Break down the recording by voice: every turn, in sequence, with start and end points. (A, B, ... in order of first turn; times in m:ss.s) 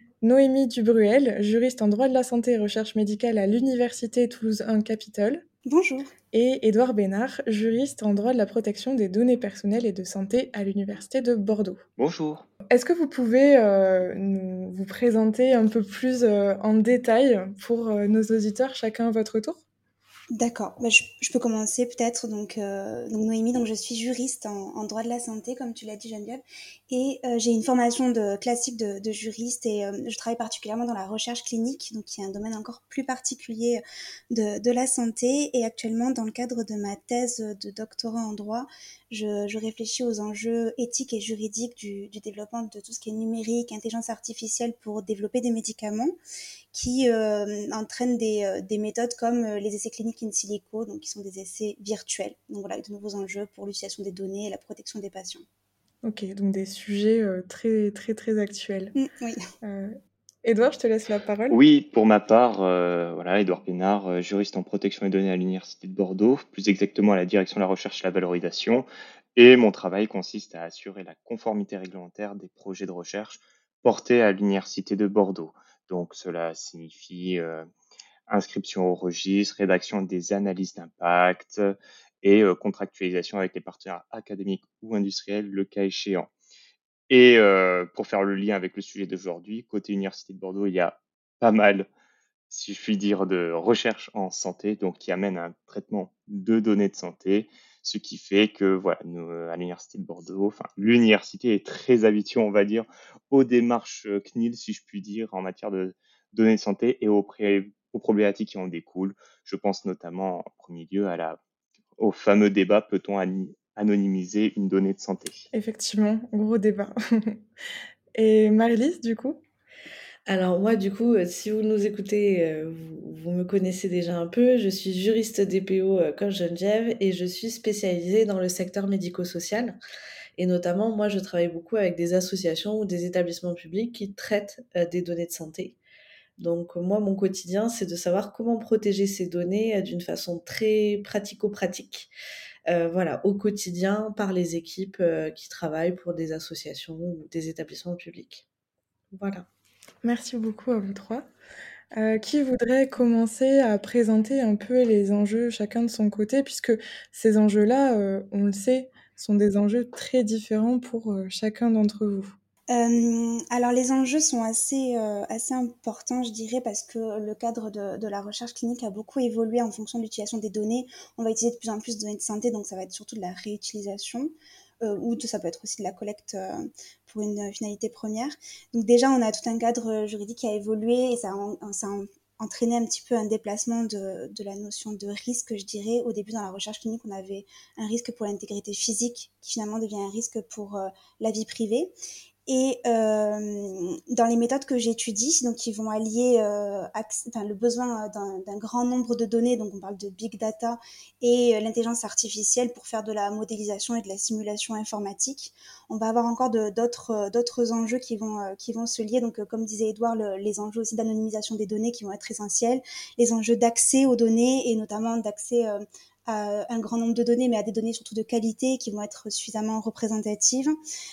0:00.2-0:05.4 A
0:05.7-0:06.1 B
0:06.3-0:11.8 A
0:12.0-0:12.5 C
0:12.7-0:19.6 A
0:20.3-0:46.2 B
0:46.7-0:55.4 B
0:56.0-0:59.0 A
0:59.0-0:59.4 B
0:59.6-1:01.6 A
1:01.5-1:17.7 C
1:18.3-1:26.3 C
1:27.1-1:31.9 C
1:32.5-1:51.4 C
1:52.0-1:55.5 C
1:55.5-1:57.4 A
1:58.2-1:59.4 A
2:00.3-2:09.8 D
2:10.4-2:15.8 D
2:16.4-2:22.1 D
2:22.7-2:28.5 D
2:29.1-2:29.5 D
2:30.0-2:31.3 A
2:31.9-2:42.4 A
2:42.7-3:11.9 B
3:12.5-3:40.8 B